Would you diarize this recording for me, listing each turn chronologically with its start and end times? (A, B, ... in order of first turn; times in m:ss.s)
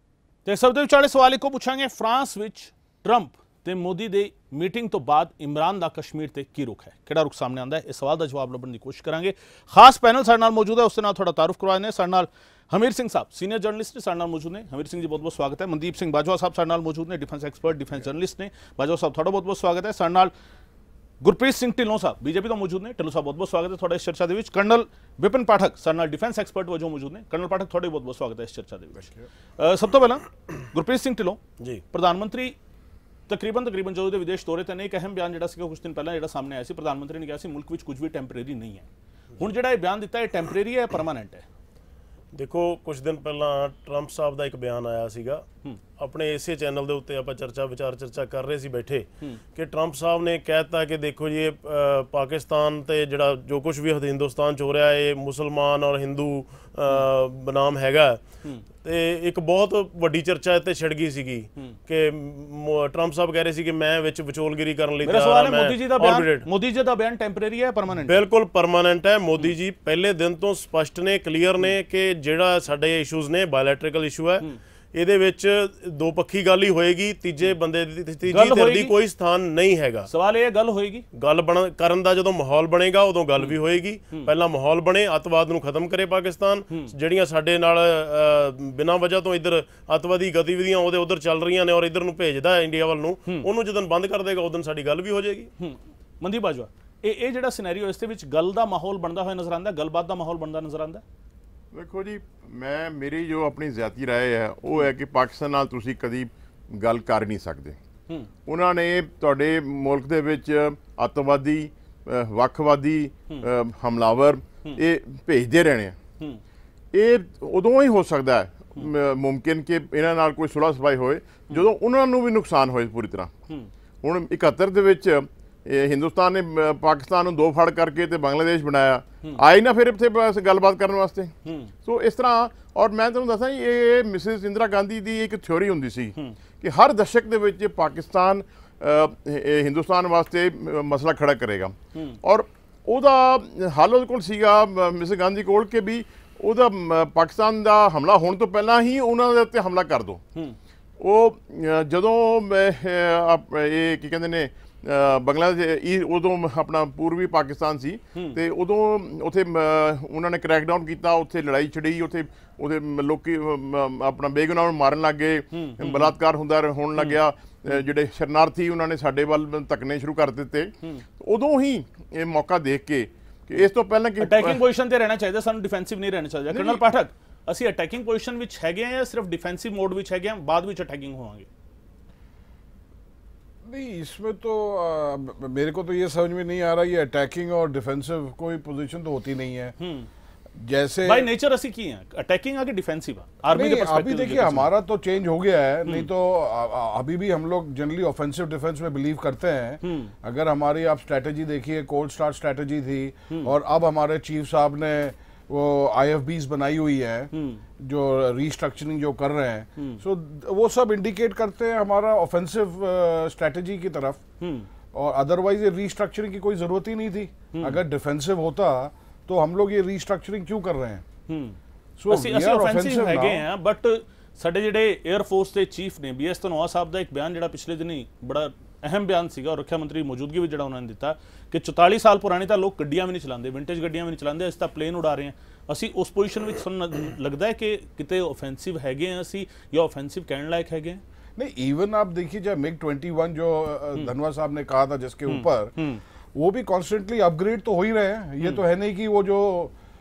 0:00.4-0:20.3 A
0:21.2-0:31.4 A
0:31.9-0:32.6 A
0:33.3-0:38.9 A
0:39.4-0:41.4 A
0:42.3-0:45.4 B
0:46.0-0:58.2 B
0:58.8-1:06.5 B
1:05.0-1:08.2 A
1:08.1-1:20.1 B
1:18.3-1:18.9 A
1:20.1-1:21.0 A
1:21.2-1:35.5 B
1:35.6-1:41.0 A
1:41.7-1:47.8 C
1:48.5-1:56.0 C
1:56.9-2:03.3 C
2:04.0-2:11.3 C
2:11.4-2:11.7 A
2:11.8-2:30.2 C
2:31.0-2:54.6 C
2:45.5-2:46.2 A
2:54.2-3:01.5 A
3:03.6-3:09.8 D
3:09.8-3:10.1 A
3:10.6-3:11.3 D
3:11.0-3:14.7 A
3:13.5-3:34.2 D
3:19.8-3:20.1 A
3:27.3-3:27.6 A
3:34.4-3:34.7 A
3:34.9-3:41.0 D
3:37.5-3:37.8 A
3:41.3-3:41.6 A
3:42.0-3:43.4 D
3:42.1-4:01.0 A
4:01.4-4:05.7 D
4:05.3-4:06.0 A
4:06.4-4:09.7 D